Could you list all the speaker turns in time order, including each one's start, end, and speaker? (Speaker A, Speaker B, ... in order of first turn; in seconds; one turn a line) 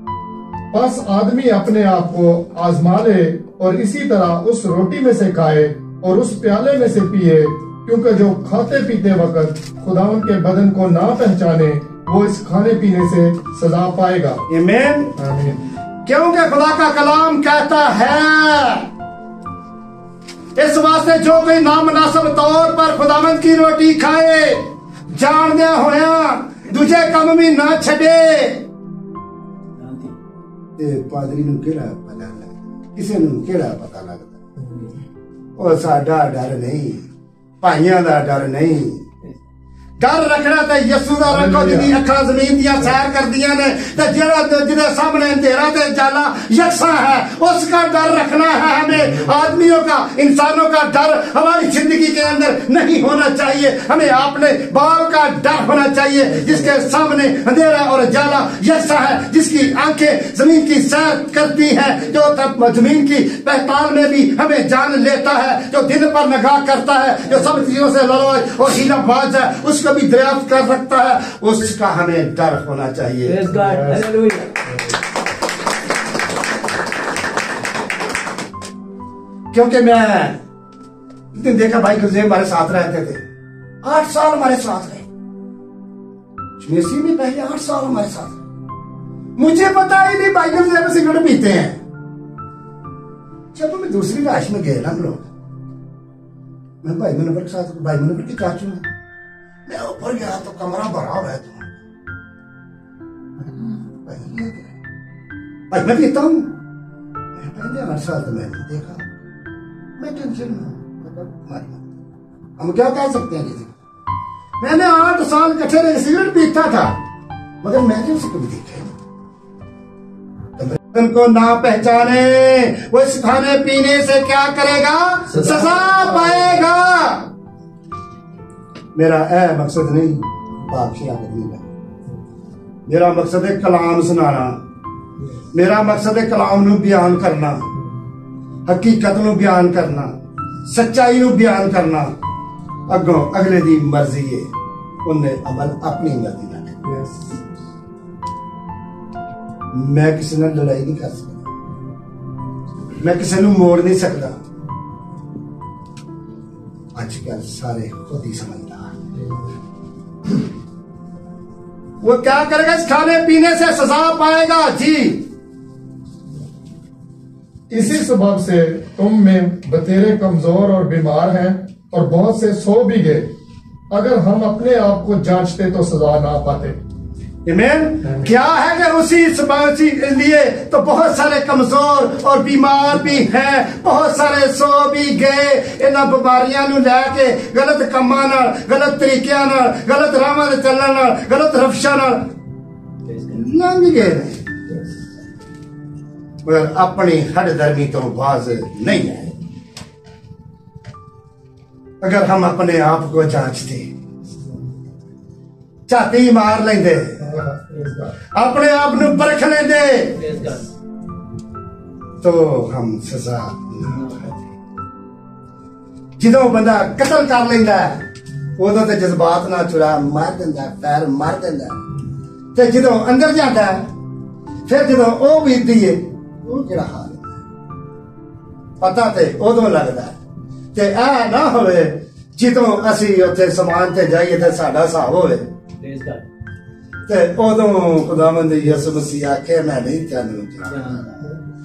Speaker A: 0.7-14.4
Speaker B: 14.5-15.2
Speaker A: 15.2-15.7
Speaker B: 16.1-18.9
Speaker B: 20.6-28.7
Speaker C: 29.8-30.1
Speaker B: 30.8-34.4
Speaker A: 34.6-34.9
Speaker B: 35.6-37.0
Speaker B: 37.6-39.0
Speaker B: 40.0-73.4
Speaker A: 41.2-41.9
Speaker C: 73.3-74.5
Speaker A: 73.7-74.0
Speaker B: 79.5-80.4
Speaker B: 81.3-83.2
Speaker B: 83.8-85.1
Speaker B: 86.6-88.4
Speaker B: 89.4-91.8
Speaker B: 93.5-95.3
Speaker B: 96.8-98.9
Speaker B: 99.7-101.7
Speaker B: 103.4-104.7
Speaker B: 105.7-106.6
Speaker B: 107.4-109.1
Speaker B: 110.0-111.8
Speaker B: 112.6-113.7
Speaker B: 114.6-117.0
Speaker B: 117.6-118.9
Speaker B: 120.6-127.3
Speaker B: 128.9-131.7
Speaker B: 132.9-134.6
Speaker B: 135.5-137.7
Speaker B: 138.7-142.1
Speaker B: 142.9-144.5
Speaker B: 145.0-146.9
Speaker A: 146.8-147.2
Speaker B: 149.7-151.4
Speaker B: 153.0-154.4
Speaker B: 156.9-159.0
Speaker B: 162.0-165.3
Speaker A: 167.7-173.3
Speaker A: 173.9-176.8
Speaker B: 177.4-192.3
Speaker A: 178.0-178.3
Speaker B: 193.3-194.4
Speaker B: 196.4-199.3
Speaker B: 202.0-203.9
Speaker B: 205.9-207.3
Speaker A: 207.2-208.2
Speaker B: 208.3-210.3
Speaker C: 210.2-210.6
Speaker B: 212.2-214.4
Speaker B: 216.2-218.0
Speaker B: 218.6-221.8
Speaker B: 222.5-223.9
Speaker B: 224.7-227.3
Speaker B: 228.8-230.2
Speaker B: 230.7-235.5
Speaker C: 235.8-236.2
Speaker B: 237.1-241.2
Speaker C: 240.7-241.0